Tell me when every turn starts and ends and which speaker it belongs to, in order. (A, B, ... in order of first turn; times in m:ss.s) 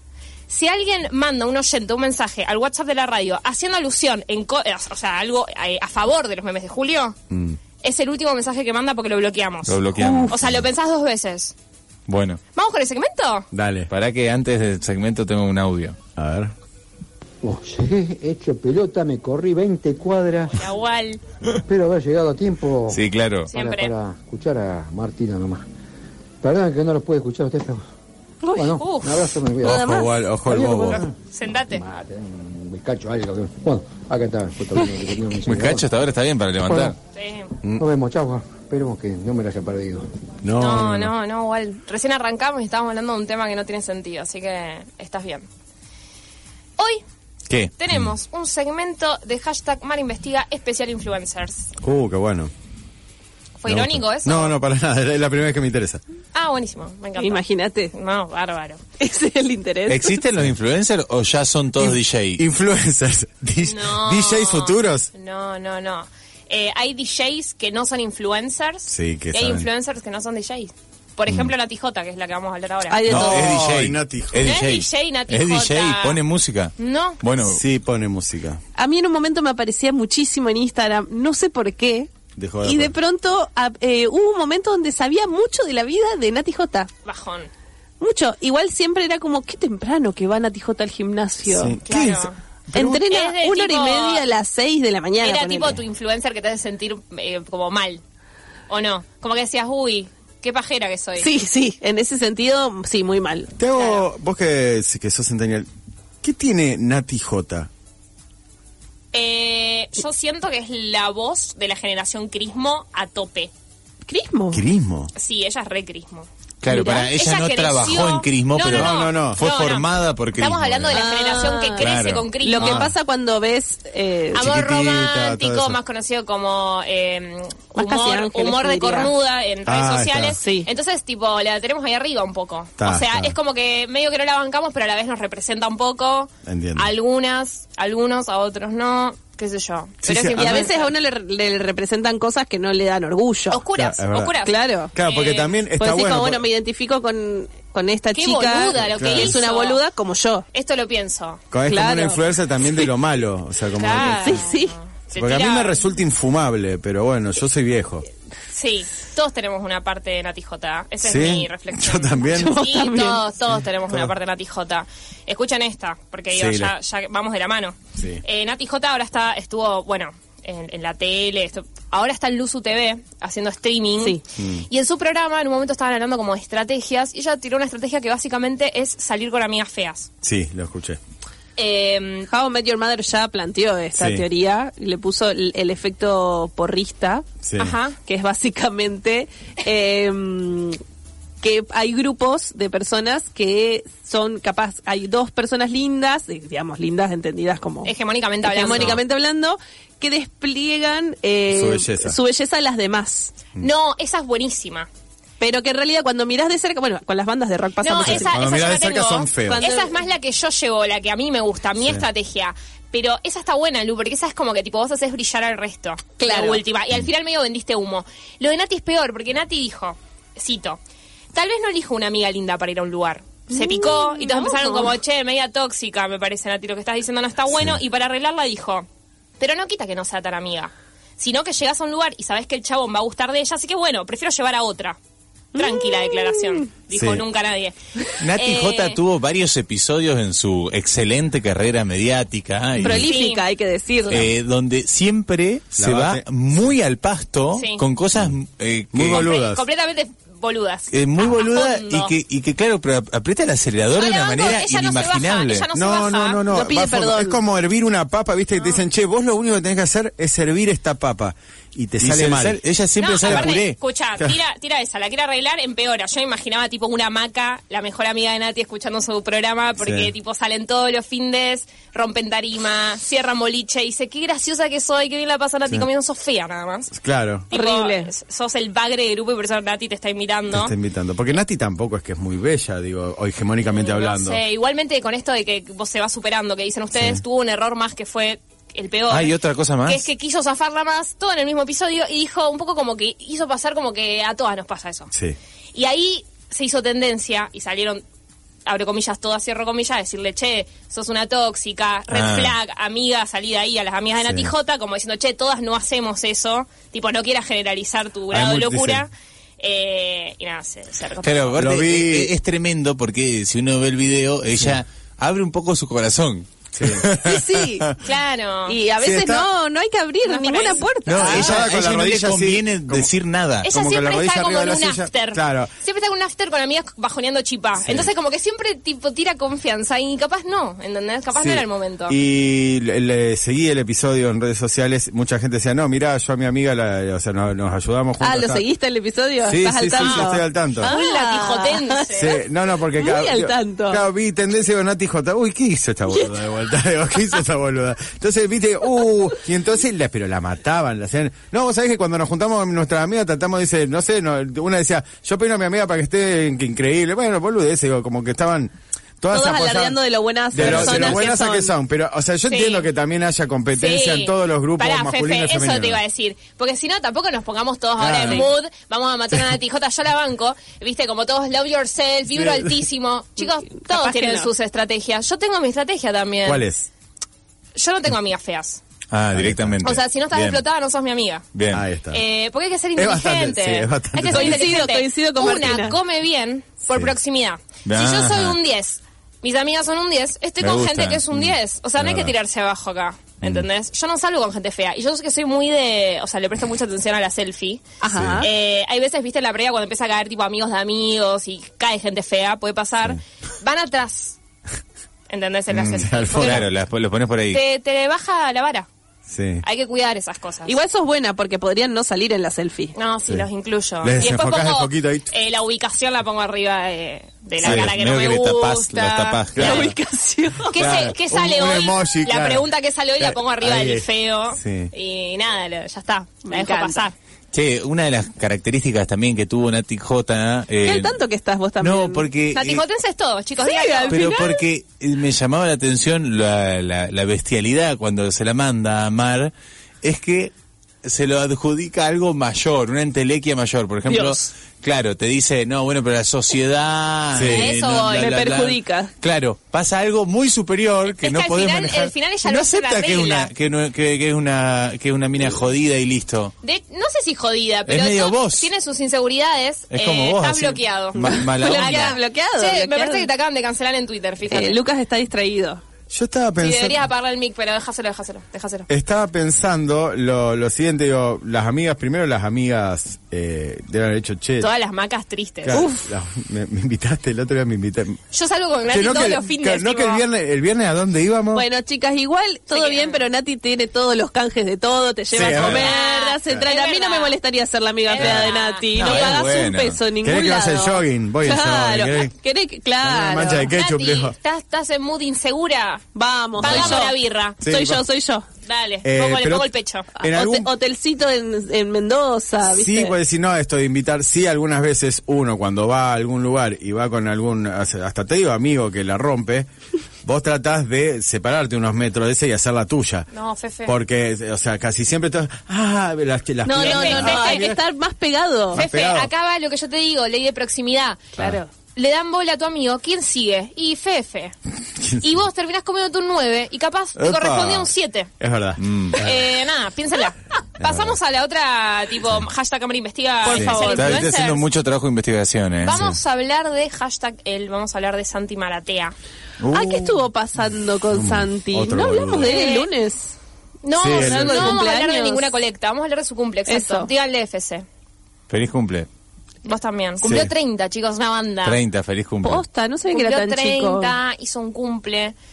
0:00.5-0:07.2 A
0:07.3-0:07.6 B
0:07.8-0:11.5 A
0:09.6-0:10.5 C
0:10.0-0:10.3 D
0:12.1-0:12.4 C
0:12.5-0:13.5 A
0:13.5-0:13.9 B
0:13.9-0:16.0 C
0:16.2-0:16.5 B
0:17.4-0:20.5 E
0:20.5-0:21.2 A
0:21.6-0:23.0 E
0:22.9-0:23.5 C
0:23.5-0:23.9 A
0:23.5-0:25.6 E
0:26.4-0:27.8 E
0:28.6-0:31.2 E
0:28.7-0:29.3 A
0:29.6-0:30.1 D
0:29.6-0:31.1 B
0:31.3-0:31.8 A
0:31.7-0:35.9 E
0:35.4-0:36.9 C
0:36.6-0:36.9 E
0:37.1-0:37.5 A
0:37.8-0:40.0 E
0:40.4-0:41.1 B
0:40.6-0:45.4 A
0:46.8-0:47.0 A
0:47.8-0:51.6 A
0:51.8-0:52.5 B
0:53.6-0:54.5 A
0:53.7-0:56.0 B
0:56.3-0:58.8 A
0:57.2-0:57.9 D
0:59.0-1:00.2 D
0:59.9-1:02.4 C
1:01.8-1:05.1 B
1:03.6-1:13.0 A
1:08.9-1:09.7 B
1:12.9-1:13.6 D
1:13.1-1:14.6 B
1:13.1-1:17.6 C
1:14.4-1:16.2 A
1:16.8-1:17.2 A
1:17.4-1:18.6 B
1:18.8-1:22.1 D
1:22.4-1:22.9 B
1:22.6-1:26.9 D
1:27.0-1:27.5 A
1:28.0-1:31.7 D
1:31.4-1:33.1 B
1:31.9-1:32.4 A
1:32.7-1:35.8 D
1:33.0-1:34.2 A
1:35.2-1:38.0 A
1:38.7-1:41.3 A
1:41.2-1:43.5 D
1:43.6-1:45.7 B
1:43.8-1:44.0 A
1:46.2-1:47.7 B
1:49.1-1:53.5 A
1:54.1-1:54.6 D
1:54.5-1:55.1 B
1:55.2-2:02.8 A
1:56.6-2:00.9 C
1:56.7-1:57.0 D
1:58.7-1:59.4 B
2:00.9-2:01.8 D
2:01.8-2:02.3 C
2:02.4-2:04.5 D
2:02.6-2:02.9 B
2:04.3-2:05.8 B
2:04.4-2:20.9 A
2:07.7-2:09.1 D
2:09.6-2:10.4 B
2:10.4-2:10.7 D
2:12.8-2:13.4 B
2:16.4-2:16.9 B
2:20.0-2:20.7 B
2:20.2-2:23.6 D
2:23.5-2:25.6 A
2:23.8-2:24.4 B
2:24.4-2:24.9 D
2:24.9-2:26.4 B
2:25.8-2:30.4 D
2:28.1-2:29.8 A
2:28.8-2:29.4 B
2:30.5-2:31.4 A
2:31.5-2:34.5 B
2:31.7-2:32.2 D
2:33.7-2:35.8 A
2:34.0-2:34.8 D
2:35.1-2:38.0 B
2:38.5-3:00.1 A
2:41.0-2:42.6 B
2:42.3-2:43.2 D
2:46.3-2:46.7 B
2:54.4-2:54.7 B
3:00.2-3:01.0 B
3:01.6-3:02.3 A
3:02.3-3:07.2 D
3:03.9-3:04.2 B
3:07.4-3:07.8 B
3:07.6-3:08.0 A
3:08.1-3:10.8 D
3:11.4-3:17.9 D
3:17.8-3:19.0 A
3:18.4-3:23.3 D
3:21.5-3:22.2 B
3:23.6-3:24.9 A
3:25.4-3:28.3 D
3:27.8-3:40.8 A
3:28.0-3:29.7 B
3:29.5-3:30.0 D
3:31.8-3:32.1 B
3:36.2-3:36.6 D
3:41.3-3:48.9 A
3:43.5-3:44.9 D
3:47.5-3:47.8 B
3:49.4-3:55.0 A
3:55.5-3:56.6 D
3:55.6-3:57.7 A
3:56.9-3:57.2 B
3:58.2-4:03.1 C
3:58.3-3:59.0 A
4:02.8-4:04.3 D
4:02.9-4:03.4 A
4:04.1-4:09.3 C
4:05.7-4:06.6 B
4:07.5-4:07.8 A
4:08.9-4:09.6 B
4:09.1-4:12.1 A
4:10.9-4:15.7 C
4:14.0-4:16.4 A
4:15.7-4:22.6 B
4:16.5-4:17.4 D
4:22.0-4:23.8 C
4:23.0-4:36.9 A
4:23.2-4:23.6 B
4:29.8-4:30.1 B
4:36.9-4:37.5 B
4:37.5-4:40.7 A
4:37.5-4:38.1 D
4:40.5-4:44.4 B
4:43.6-4:55.1 A
4:46.9-4:47.2 B
4:49.1-4:50.0 C
4:55.7-4:58.0 A
4:58.6-5:11.7 A
5:02.1-5:02.5 C
5:04.2-5:04.5 B
5:08.3-5:09.1 B
5:11.2-5:17.2 C
5:11.5-5:12.3 B
5:16.8-5:17.9 B
5:17.2-5:17.9 D
5:18.0-5:18.8 A
5:18.7-5:21.5 D
5:19.0-5:19.5 B
5:20.2-5:20.9 A
5:21.0-5:23.7 C
5:21.2-5:23.1 B
5:23.6-5:25.7 B
5:23.6-5:32.2 A
5:27.8-5:28.1 B
5:31.3-5:38.6 B
5:38.2-5:42.1 D
5:39.4-5:40.9 B
5:40.0-5:42.4 A
5:42.1-6:00.0 B
5:42.9-5:44.0 D
5:59.3-6:01.7 D
6:00.5-6:06.0 B
6:00.6-6:01.1 C
6:02.5-6:02.9 A
6:03.8-6:16.6 A
6:08.0-6:08.5 B
6:12.3-6:12.8 B
6:13.7-6:14.5 D
6:16.4-6:16.9 B
6:17.8-6:18.8 A
6:19.1-6:20.6 C
6:19.3-6:19.9 B
6:19.8-6:21.5 A
6:21.5-6:21.8 C
6:21.7-6:22.2 B
6:22.1-6:37.8 A
6:22.9-6:24.8 B
6:24.3-6:26.0 D
6:27.8-6:28.6 C
6:30.6-6:31.2 C
6:31.3-6:32.3 B
6:33.4-6:33.7 B
6:38.0-6:38.5 D
6:38.1-6:38.5 B
6:38.4-6:44.4 A
6:45.3-6:46.6 A
6:45.7-6:46.6 B
6:46.4-6:47.6 C
6:47.5-6:48.9 A
6:49.3-6:49.6 B
6:49.6-6:50.7 A
6:50.6-6:52.9 D
6:52.9-6:59.7 A
6:54.0-6:55.3 B
6:57.6-6:59.9 C
6:57.6-6:57.9 B
6:59.6-6:59.9 B
6:59.6-7:00.8 D
7:00.7-7:07.1 A
7:00.7-7:02.7 B
7:03.2-7:04.9 B
7:06.4-7:07.0 D
7:07.5-7:11.1 C
7:10.8-7:12.2 D
7:11.8-7:12.8 C
7:12.5-7:14.4 A
7:13.6-7:14.6 D
7:14.1-7:20.5 C
7:21.0-7:36.5 C
7:24.1-7:24.4 D
7:27.3-7:27.7 B
7:27.4-7:28.4 A
7:28.2-7:29.1 D
7:31.1-7:33.5 A
7:36.6-7:44.8 A
7:37.9-7:38.7 C
7:39.9-7:42.2 C
7:41.6-7:43.3 D
7:44.5-7:45.8 D
7:46.1-7:47.1 B
7:46.6-7:48.9 A
7:48.9-7:54.7 B
7:54.6-7:55.8 A
7:55.6-7:58.2 B
7:55.7-7:56.1 D
7:58.3-8:00.2 A
7:58.9-8:01.6 B
8:01.5-8:13.7 D
8:02.7-8:03.2 A
8:05.3-8:05.9 B
8:05.4-8:07.4 A
8:05.6-8:05.8 C
8:08.1-8:09.2 A
8:08.2-8:10.0 C
8:10.2-8:12.3 B
8:13.0-8:14.3 B
8:13.6-8:16.0 A
8:16.1-8:18.4 D
8:16.6-8:17.6 A
8:16.6-8:17.0 B
8:17.6-8:18.0 B
8:18.6-8:20.1 A
8:19.0-8:20.7 B
8:20.2-8:23.2 D
8:22.6-8:29.7 B
8:30.2-8:33.3 B
8:33.3-8:33.9 A
8:33.8-8:37.8 B
8:36.6-8:38.8 D
8:36.7-8:37.7 A
8:38.7-8:39.3 B
8:38.8-8:44.5 A
8:41.4-8:41.6 D
8:45.0-8:45.4 B
8:45.2-8:48.3 A
8:47.2-8:49.4 B
8:48.8-8:49.2 C
8:49.2-8:54.6 A
8:50.8-8:51.2 B
8:53.4-8:54.3 D
8:53.5-8:53.8 B
8:53.9-8:56.0 C
8:55.8-8:59.1 A
8:55.9-8:56.2 B
8:59.6-9:00.2 B
8:59.7-9:03.3 D
9:01.1-9:02.5 B
9:02.4-9:02.9 A
9:03.8-9:07.8 A
9:04.0-9:04.8 B
9:04.1-9:05.5 D
9:06.7-9:07.1 D
9:08.5-9:09.1 C
9:09.6-9:11.8 A
9:10.2-9:10.5 B
9:11.6-9:12.6 C
9:12.4-9:14.1 D
9:13.1-9:15.3 A